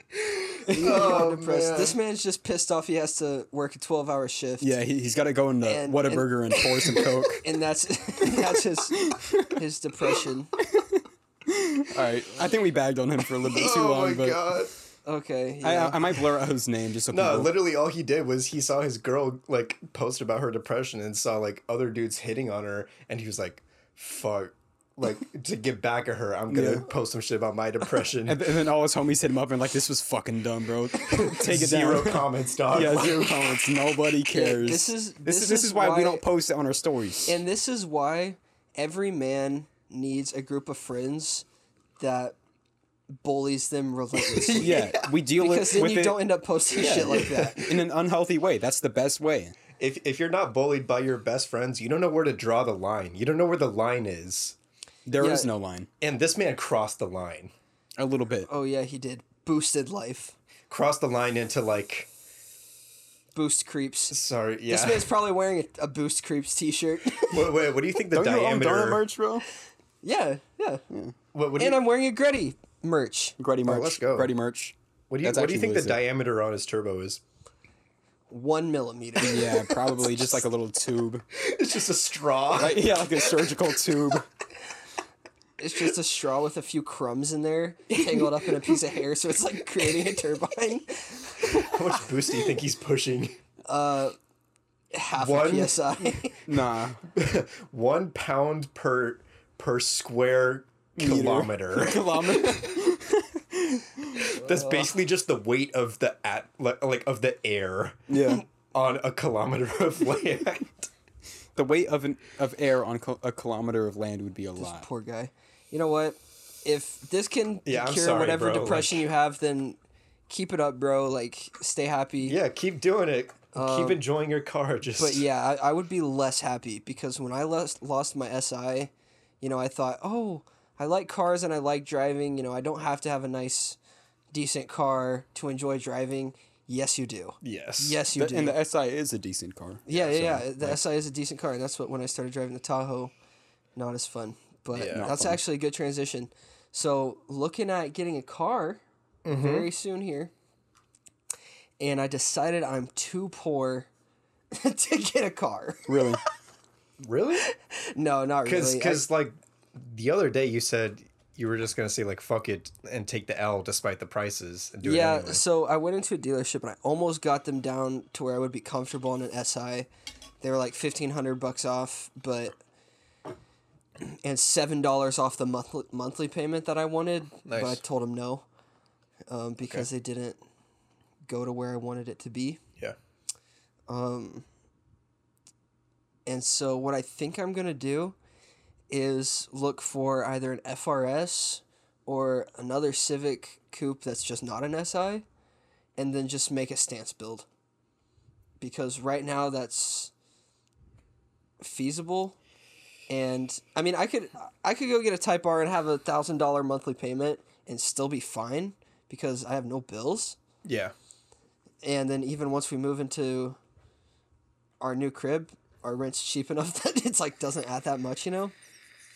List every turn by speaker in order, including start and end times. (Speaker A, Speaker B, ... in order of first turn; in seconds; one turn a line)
Speaker A: 0.4-2.0
Speaker B: 0.7-1.2
Speaker C: 0.7-4.7
Speaker B: 4.6-7.5
Speaker C: 5.6-10.5
Speaker B: 9.1-9.5
Speaker B: 11.5-14.5
Speaker A: 13.4-14.7
Speaker C: 15.1-16.2
Speaker B: 15.6-17.5
Speaker A: 17.1-28.6
Speaker B: 26.5-26.9
Speaker B: 28.3-37.4
Speaker A: 31.1-33.5
Speaker C: 34.3-36.2
Speaker C: 37.3-41.5
Speaker C: 42.0-42.4
Speaker C: 43.1-44.9
Speaker B: 44.4-49.6
Speaker A: 44.6-45.0
Speaker C: 45.4-47.7
Speaker A: 47.1-47.5
Speaker A: 49.8-54.6
Speaker B: 55.1-55.9
Speaker C: 55.2-55.5
Speaker A: 56.0-57.5
Speaker B: 58.0-58.5
Speaker C: 58.5-60.4
Speaker A: 60.7-62.1
Speaker C: 63.3-67.3
Speaker A: 64.1-65.1
Speaker A: 67.3-69.1
Speaker B: 68.1-69.5
Speaker C: 70.0-70.8
Speaker A: 71.3-71.8
Speaker C: 71.6-73.4
Speaker B: 73.4-76.0
Speaker A: 73.6-74.4
Speaker A: 75.1-77.2
Speaker C: 78.3-79.6
Speaker B: 79.2-81.2
Speaker A: 81.4-83.5
Speaker B: 82.5-84.3
Speaker C: 85.6-91.7
Speaker A: 91.5-93.4
Speaker C: 93.7-94.2
Speaker C: 94.9-96.4
Speaker A: 95.2-96.0
Speaker B: 96.5-97.0
Speaker A: 97.1-102.7
Speaker B: 101.0-104.3
Speaker A: 104.2-110.9
Speaker C: 104.4-104.9
Speaker B: 108.1-108.5
Speaker B: 111.5-114.9
Speaker C: 114.6-119.8
Speaker A: 117.7-119.1
Speaker C: 120.3-122.4
Speaker A: 122.2-125.3
Speaker C: 123.5-124.0
Speaker C: 125.0-133.8
Speaker C: 134.3-138.6
Speaker A: 137.4-138.0
Speaker B: 138.1-140.8
Speaker C: 139.9-143.1
Speaker A: 139.9-140.3
Speaker C: 143.8-150.3
Speaker A: 144.7-145.1
Speaker B: 144.9-145.4
Speaker A: 149.2-149.7
Speaker C: 151.8-153.9
Speaker C: 154.5-156.0
Speaker B: 155.9-156.2
Speaker A: 157.0-157.5
Speaker C: 157.6-159.1
Speaker A: 158.4-165.4
Speaker C: 164.8-169.9
Speaker C: 170.4-172.6
Speaker C: 174.0-178.4
Speaker A: 177.4-177.8
Speaker C: 179.3-180.4
Speaker A: 179.6-179.9
Speaker C: 181.3-182.6
Speaker C: 183.9-184.5
Speaker C: 186.3-188.2
Speaker C: 188.9-195.2
Speaker C: 196.0-197.5
Speaker C: 198.6-200.1
Speaker C: 201.6-202.4
Speaker C: 203.1-210.4
Speaker A: 210.6-210.9
Speaker C: 211.8-213.6
Speaker C: 214.8-218.5